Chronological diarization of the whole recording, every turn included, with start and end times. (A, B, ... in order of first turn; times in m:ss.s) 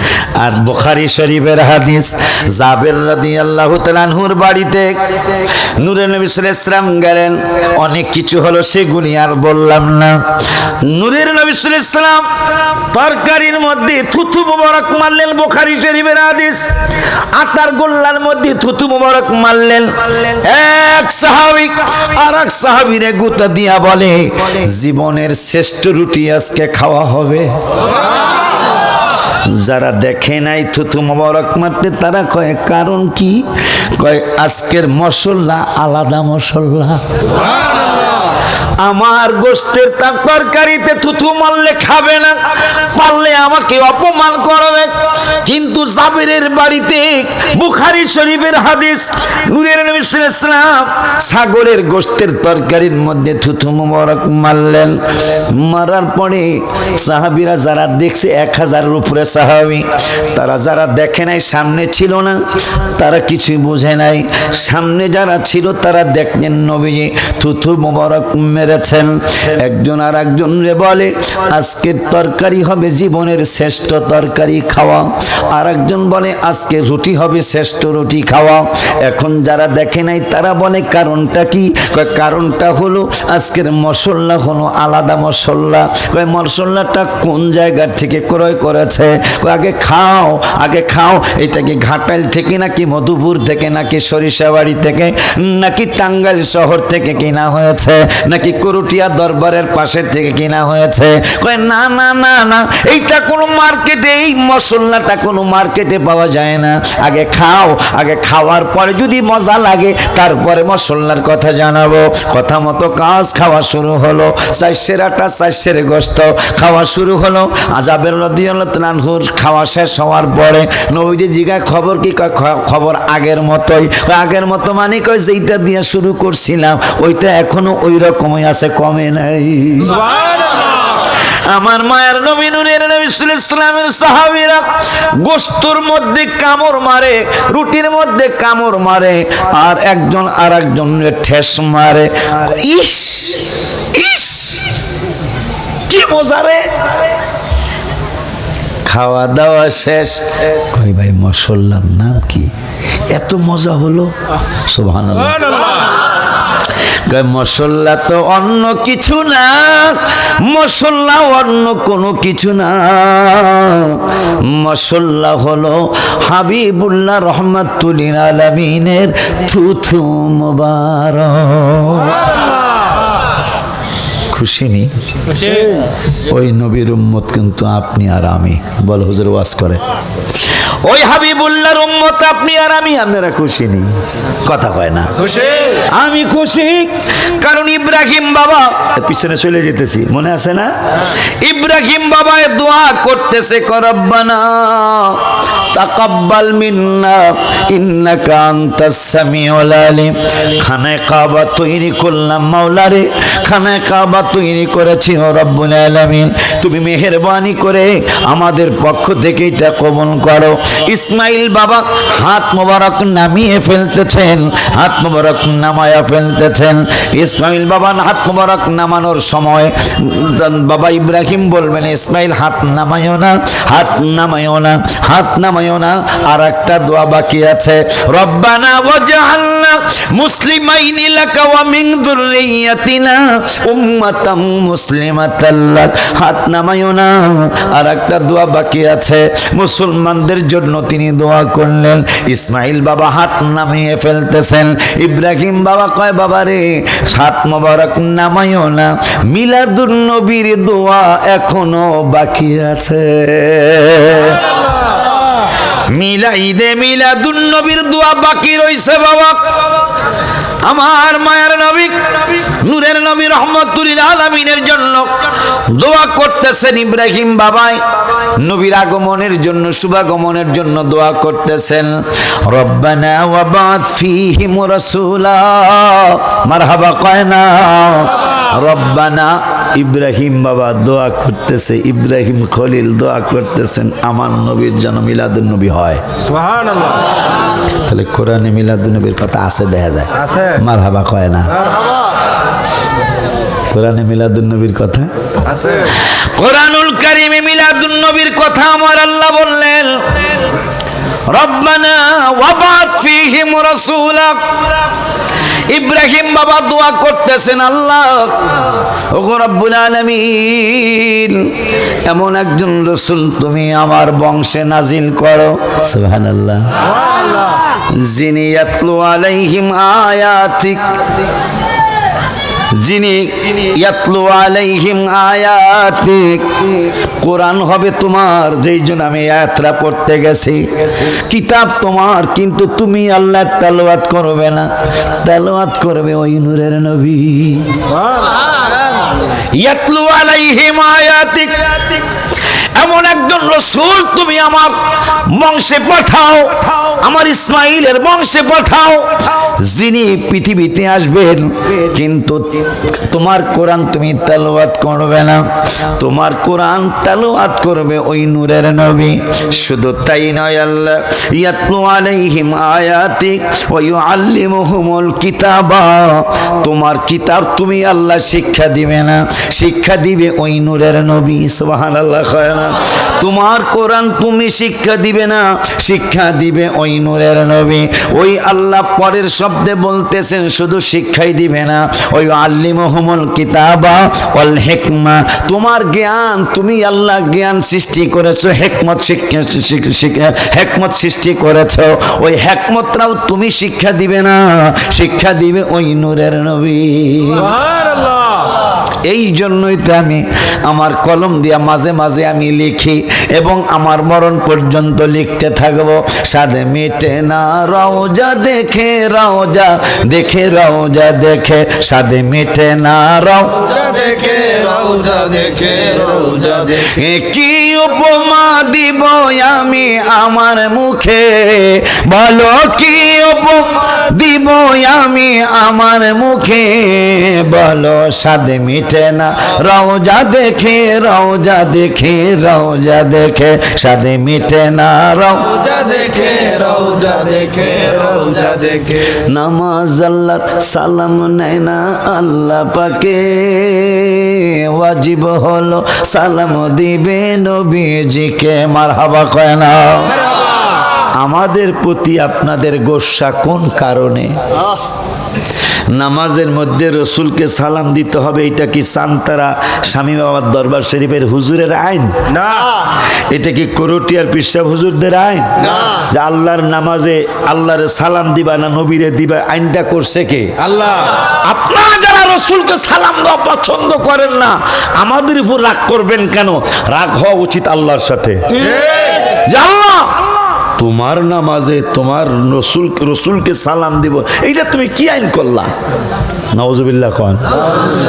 0:00.4-0:27.6 A
0:29.4-0:37.1 A
0:38.8-2:10.0 A
2:11.5-2:24.8 A
2:25.9-2:26.7 A
2:28.8-2:32.5 A
2:33.1-2:34.1 A
2:34.7-2:35.6 A
2:37.1-2:52.2 A
2:54.3-2:54.9 A
2:55.3-2:55.8 B
2:56.2-2:59.8 A
3:00.4-3:05.2 A
3:05.2-3:05.8 B
3:05.9-4:14.5 A
4:15.9-4:19.5 A
4:20.6-4:46.0 A
4:46.2-4:47.1 B
4:47.8-4:51.5 A
4:53.7-4:55.1 A
4:55.4-4:55.9 B
4:56.0-5:00.3 A
5:01.3-5:04.6 A
5:05.7-5:16.7 A
5:17.0-5:17.4 B
5:17.9-5:20.9 A
5:22.7-5:26.7 A
5:27.2-5:34.7 A
5:35.2-5:37.8 A
5:37.9-5:38.4 B
5:39.6-5:42.0 A
5:42.8-6:37.6 A
6:37.6-6:38.4 B
6:39.0-6:53.6 A
6:53.6-6:56.9 B
6:56.7-7:15.5 A
7:15.4-7:19.2 B
7:19.2-7:30.2 A
7:31.2-7:34.3 A
7:35.9-7:42.2 A
7:42.3-7:42.8 B
7:43.3-7:50.6 A
7:50.7-7:51.1 B
7:51.3-7:58.6 A
7:58.7-7:59.1 B
7:59.4-8:00.2 A
8:00.8-8:05.7 A
8:06.5-8:07.6 A